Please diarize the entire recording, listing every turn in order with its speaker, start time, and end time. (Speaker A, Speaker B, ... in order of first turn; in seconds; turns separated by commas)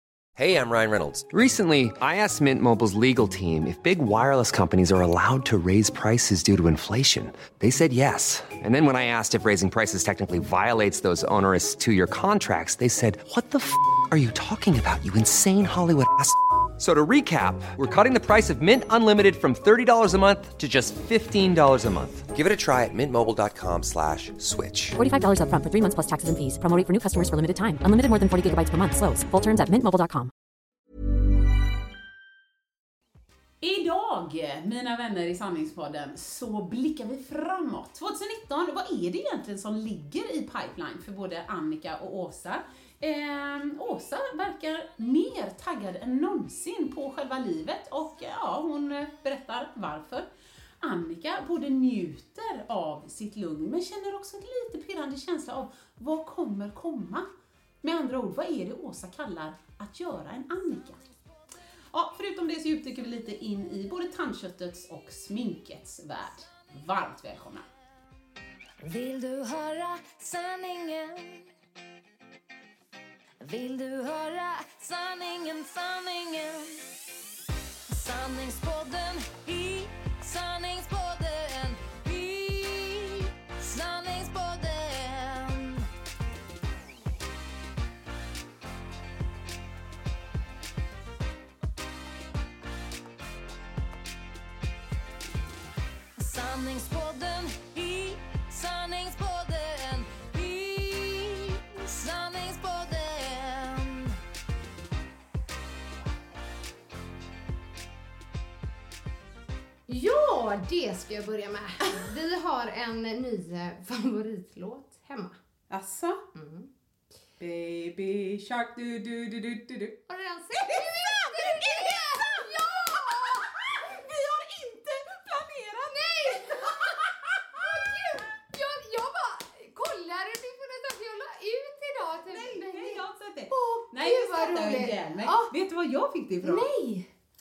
Speaker A: 0.4-24.9, Speaker B: 24.9-30.3, Speaker C: 33.6-50.2, Speaker C: 50.8-57.3, Speaker C: 57.8-61.0, Speaker C: 61.9-67.7, Speaker D: 68.8-71.5, Speaker D: 73.4-76.9, Speaker D: 77.9-85.9, Speaker D: 96.2-104.2, Speaker E: 109.9-115.3, Speaker C: 115.7-116.2, Speaker E: 116.3-116.7, Speaker C: 117.4-119.9, Speaker E: 120.1-123.8, Speaker C: 120.5-127.7, Speaker E: 125.9-135.5, Speaker C: 132.3-136.7, Speaker E: 136.4-137.1